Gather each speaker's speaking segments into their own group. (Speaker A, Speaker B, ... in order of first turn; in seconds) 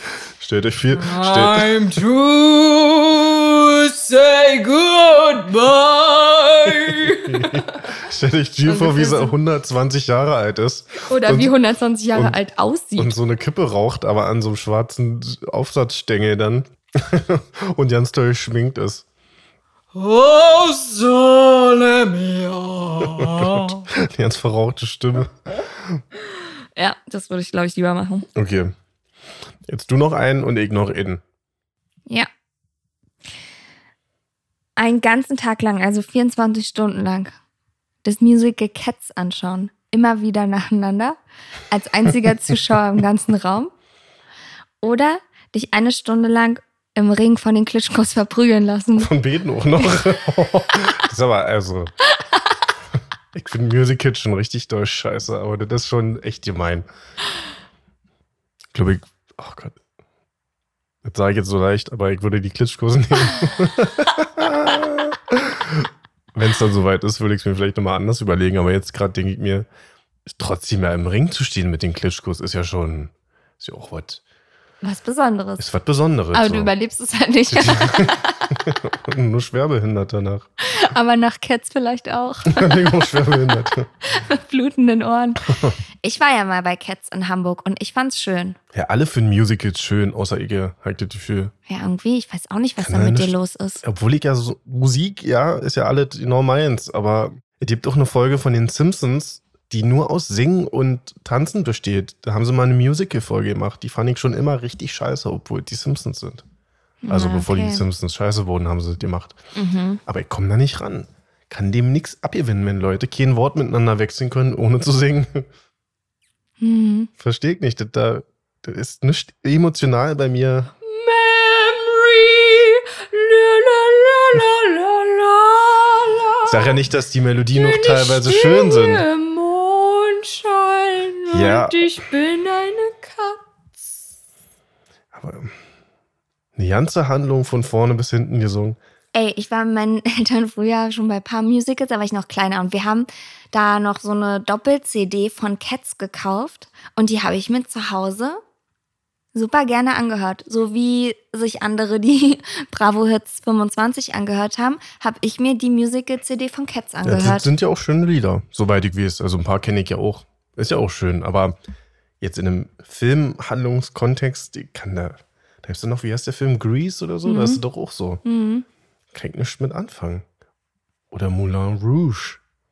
Speaker A: 0.2-2.0, 6.9-11.5, 13.0-19.0, 23.2-26.0, 28.3-28.7, 29.6-31.2, 49.0-51.9, 53.3-56.9, 58.7-59.8, 61.0-69.7, 70.3-74.2, 75.6-76.7, 77.5-80.5, 82.5-83.9, 88.7-91.5, 92.8-106.4, 107.1-109.4, 110.0-115.5, 117.2-120.7, 126.5-129.1, 131.3-132.1, 135.1-135.5, 136.6-138.8, 157.0-161.6, 162.2-168.2, 169.1-170.2, 171.1-172.4
Speaker B: 0.9-7.5, 19.9-23.9
Speaker C: 8.7-9.3, 11.1-13.1, 26.8-28.3, 34.8-37.3, 38.0-41.2, 41.7-43.7, 44.8-49.1, 74.8-75.6, 76.3-78.5, 80.6-82.7, 84.0-85.5, 86.0-88.6, 91.7-93.8, 107.0-107.8, 109.5-110.0, 116.6-117.1, 120.8-126.5, 127.5-133.8, 139.1-148.4, 149.3-157.5, 167.2-167.6, 168.2-168.6